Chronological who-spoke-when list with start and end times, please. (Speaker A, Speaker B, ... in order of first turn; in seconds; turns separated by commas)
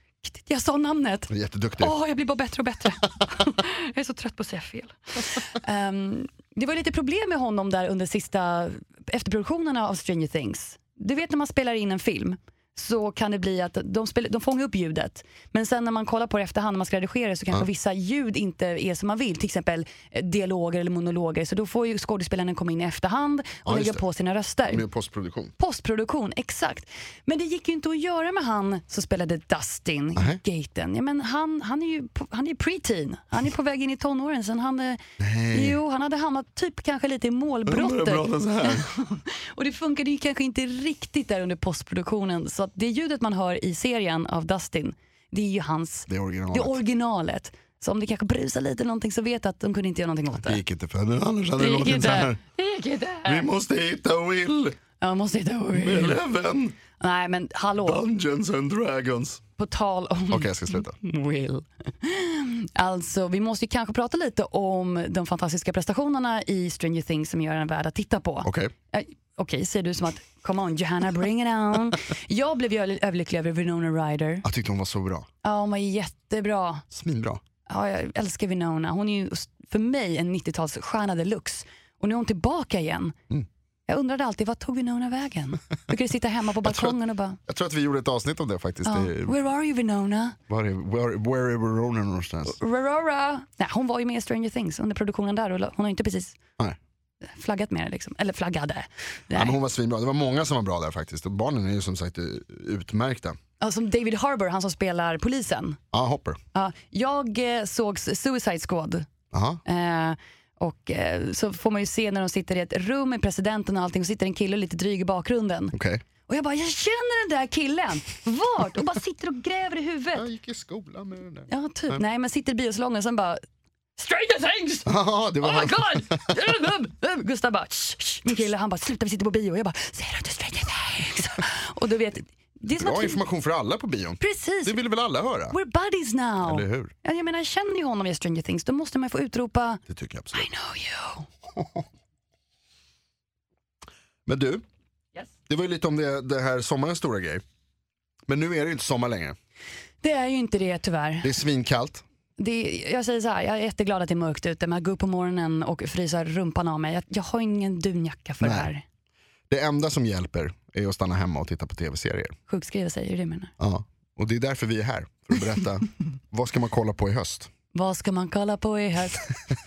Speaker A: 0.2-24.8, Speaker B: 1.3-1.9, Speaker B: 23.6-24.0, Speaker B: 24.7-25.5, Speaker A: 25.6-35.0, Speaker B: 35.2-35.8, Speaker A: 35.5-50.6, Speaker B: 37.6-38.9, Speaker B: 46.1-46.8, Speaker B: 50.4-52.4, Speaker A: 51.6-53.5, Speaker B: 53.2-54.8, Speaker A: 55.0-56.2, Speaker B: 55.7-56.8, Speaker A: 57.0-58.0, Speaker B: 57.8-59.4, Speaker A: 59.6-74.5, Speaker B: 60.3-61.0, Speaker B: 68.4-68.7, Speaker B: 74.4-75.3, Speaker A: 75.4-76.8, Speaker B: 76.9-77.4, Speaker A: 77.7-83.2, Speaker A: 83.9-87.4, Speaker B: 86.6-89.3, Speaker A: 88.8-90.4, Speaker B: 90.5-92.6, Speaker A: 92.5-96.4, Speaker A: 97.2-99.5, Speaker B: 99.3-103.4, Speaker A: 103.6-105.8, Speaker B: 105.9-106.4, Speaker A: 106.5-109.1, Speaker B: 109.3-109.6, Speaker A: 109.6-115.7, Speaker B: 115.7-116.0, Speaker A: 116.3-120.2, Speaker B: 120.1-122.0, Speaker A: 121.5-123.4, Speaker A: 124.0-133.2, Speaker B: 124.8-126.2, Speaker B: 132.8-135.6, Speaker A: 134.2-134.8, Speaker A: 135.5-139.8, Speaker B: 136.4-136.9, Speaker B: 139.9-140.5, Speaker A: 140.3-141.3, Speaker B: 141.5-141.8, Speaker B: 144.2-144.6, Speaker B: 145.5-147.4, Speaker B: 148.3-149.3, Speaker A: 150.0-151.3, Speaker B: 151.2-152.0, Speaker A: 152.4-158.8, Speaker B: 158.4-158.7, Speaker B: 159.5-162.3, Speaker A: 162.5-163.5, Speaker B: 163.6-167.5, Speaker A: 167.7-169.4